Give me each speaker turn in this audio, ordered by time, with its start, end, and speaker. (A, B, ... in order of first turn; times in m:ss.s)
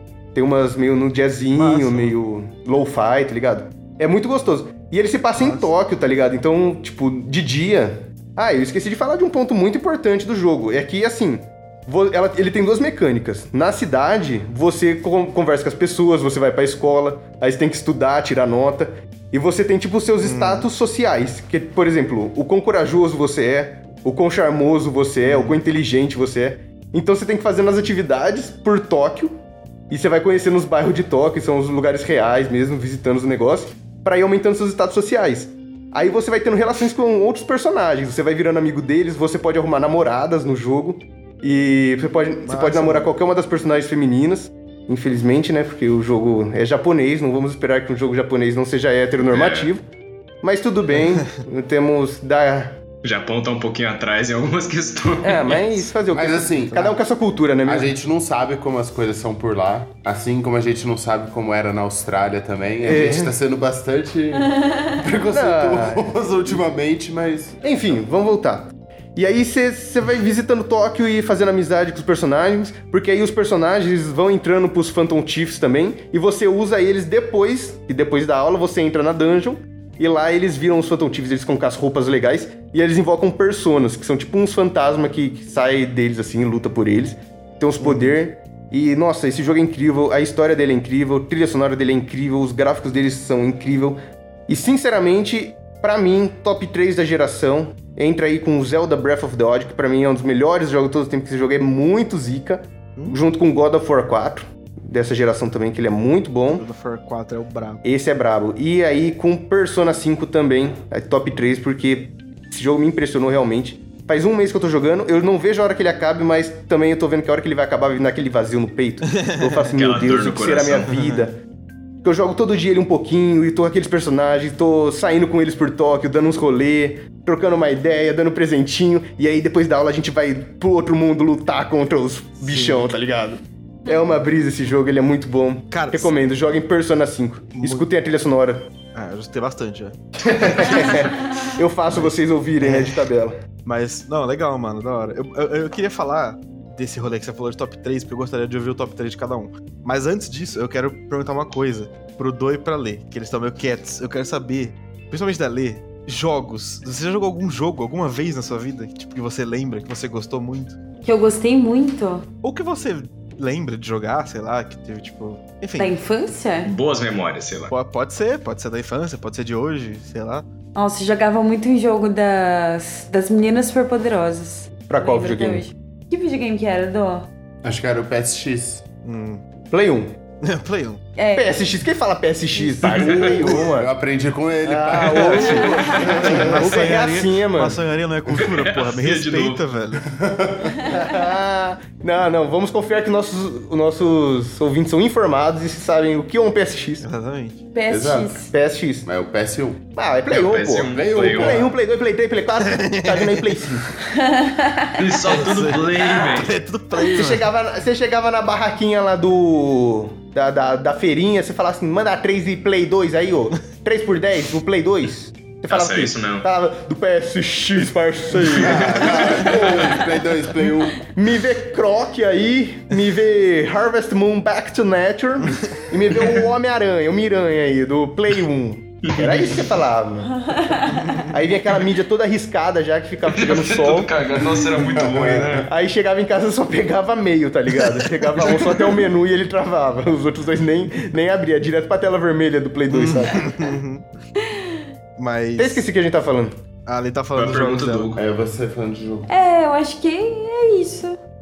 0:00.3-0:29.4 A
0:01.5-0:02.2 B
0:05.4-0:05.7 B
0:20.2-0:20.7 B
0:25.2-0:25.6 B
0:29.9-0:49.8 A
0:42.4-0:43.1 B
0:49.3-0:49.7 C
0:50.4-0:52.8 A
0:50.9-0:51.2 B
0:53.0-0:55.8 C
0:55.2-0:57.9 A
0:56.1-0:56.9 D
0:57.6-1:07.6 D
1:02.8-1:03.4 A
1:04.4-1:04.8 E
1:05.3-1:06.2 A
1:07.6-1:46.6 A
1:27.8-1:28.2 B
1:46.5-1:47.8 B
1:47.8-2:01.4 A
1:59.1-1:59.6 B
1:59.7-2:00.9 C
2:00.9-2:01.3 B
2:02.0-2:18.7 A
2:12.4-2:12.9 B
2:15.7-2:16.1 B
2:17.5-2:17.8 B
2:18.9-2:20.0 B
2:20.2-2:23.4 A
2:20.4-2:20.7 C
2:20.5-2:20.9 B
2:20.6-2:21.5 E
2:21.9-2:23.0 B
2:23.6-2:40.8 B
2:41.0-2:42.3 E
2:42.4-2:45.9 B
2:45.8-2:46.7 E
2:46.6-2:47.7 C
2:47.7-2:50.4 B
2:50.7-2:57.3 E
2:54.9-2:55.6 A
2:57.6-2:58.8 D
2:59.0-2:59.4 B
2:59.7-3:00.2 A
3:00.4-3:01.0 B
3:01.2-3:01.6 E
3:01.3-3:03.9 A
3:02.8-3:03.5 C
3:03.0-3:06.7 D
3:04.6-3:07.8 A
3:05.0-3:10.0 B
3:05.6-3:06.1 E
3:08.4-3:09.6 C
3:10.1-3:10.8 D
3:10.8-3:17.0 A
3:17.0-3:17.6 B
3:17.7-3:18.5 E
3:17.9-3:18.4 D
3:18.4-3:19.1 A
3:19.0-3:19.8 D
3:19.9-3:24.0 A
3:20.3-3:21.6 C
3:20.8-3:21.7 D
3:22.6-3:23.5 B
3:24.0-3:25.4 E
3:25.0-3:26.6 C
3:25.2-3:27.5 B
3:27.1-3:40.1 A
3:35.7-3:36.4 C
3:38.4-3:39.2 B
3:38.6-3:41.0 D
3:39.1-3:39.4 C
3:41.1-3:50.4 A
3:49.0-3:49.7 C
3:50.3-3:51.2 E
3:51.2-3:54.1 A
3:53.3-3:55.7 C
3:54.9-3:55.6 D
3:55.6-4:03.5 A
4:02.9-4:04.1 B
4:04.4-4:04.8 E
4:05.2-4:05.8 B
4:05.6-4:06.6 A
4:06.8-4:08.2 B
4:07.3-4:08.2 C
4:08.2-4:09.3 D
4:09.3-4:11.2 E